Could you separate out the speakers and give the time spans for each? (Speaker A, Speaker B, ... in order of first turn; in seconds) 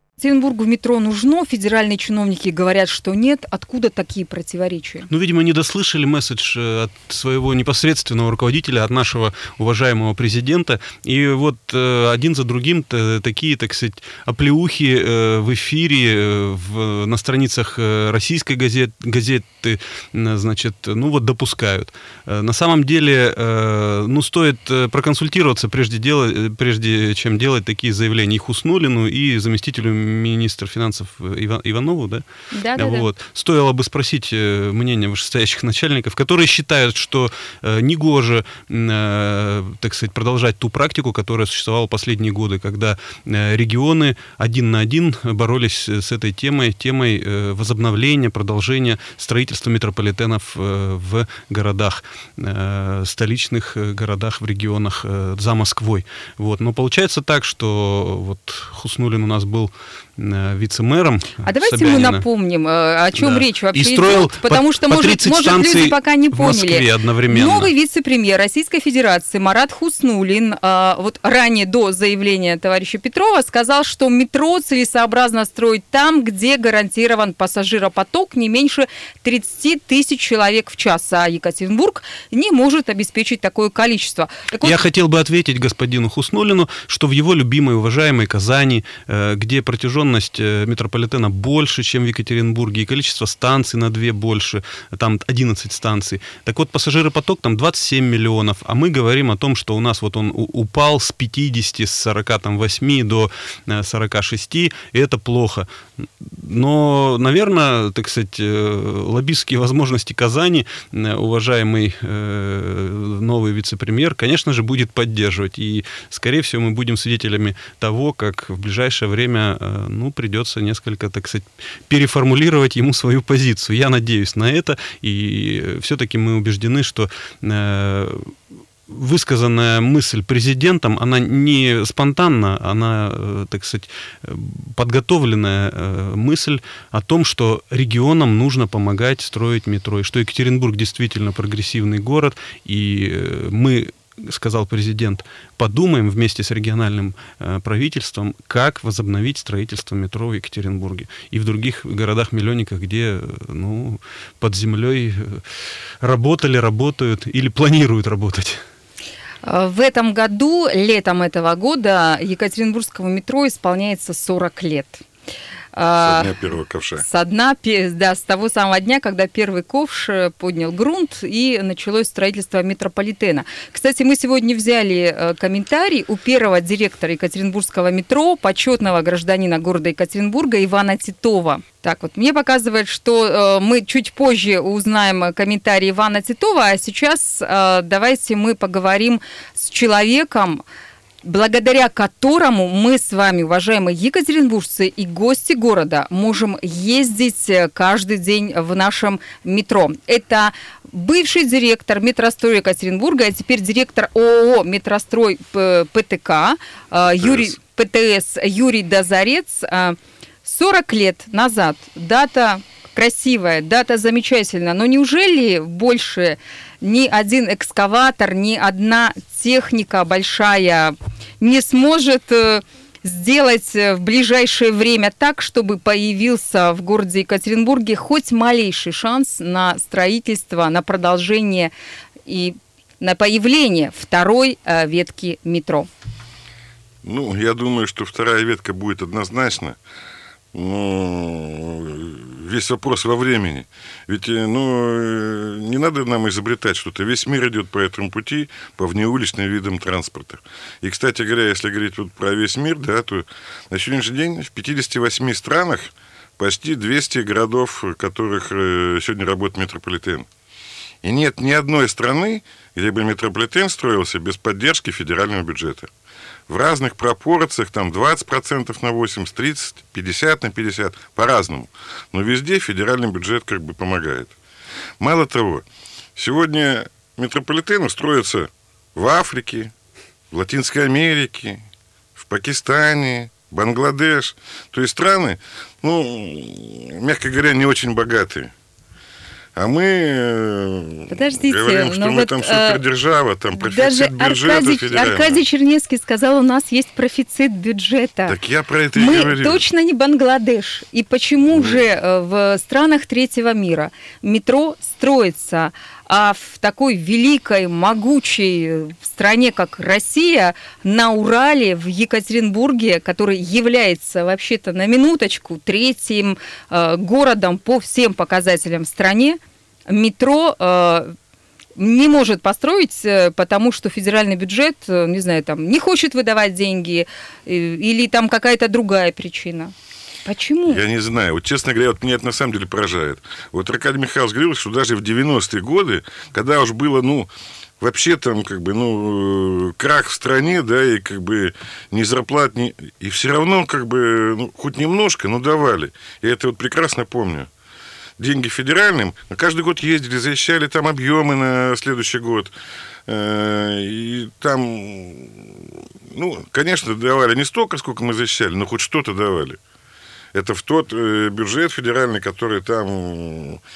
Speaker A: 0.2-5.1, 32.5-33.1, 61.5-84.8, 159.4-165.0, 165.7-166.3, 167.0-190.6, 191.2-231.7, 232.3-235.9, 291.1-292.8, 293.6-298.4, 299.0-321.1, 321.8-329.7, 330.2-330.8
Speaker B: 5.1-32.2, 32.8-62.2, 63.2-67.7, 84.6-105.7, 106.2-128.3, 128.9-155.4, 156.0-158.6
Speaker C: 166.0-167.0, 207.2-207.5, 237.0-239.8, 240.5-260.3, 261.0-265.9, 266.5-274.4, 275.0-275.6, 276.2-279.7, 280.3-281.6, 282.2-288.5, 289.6-295.4, 298.3-299.6, 330.7-337.3, 337.8-347.5, 348.2-352.5, 353.1-359.6, 360.3-363.6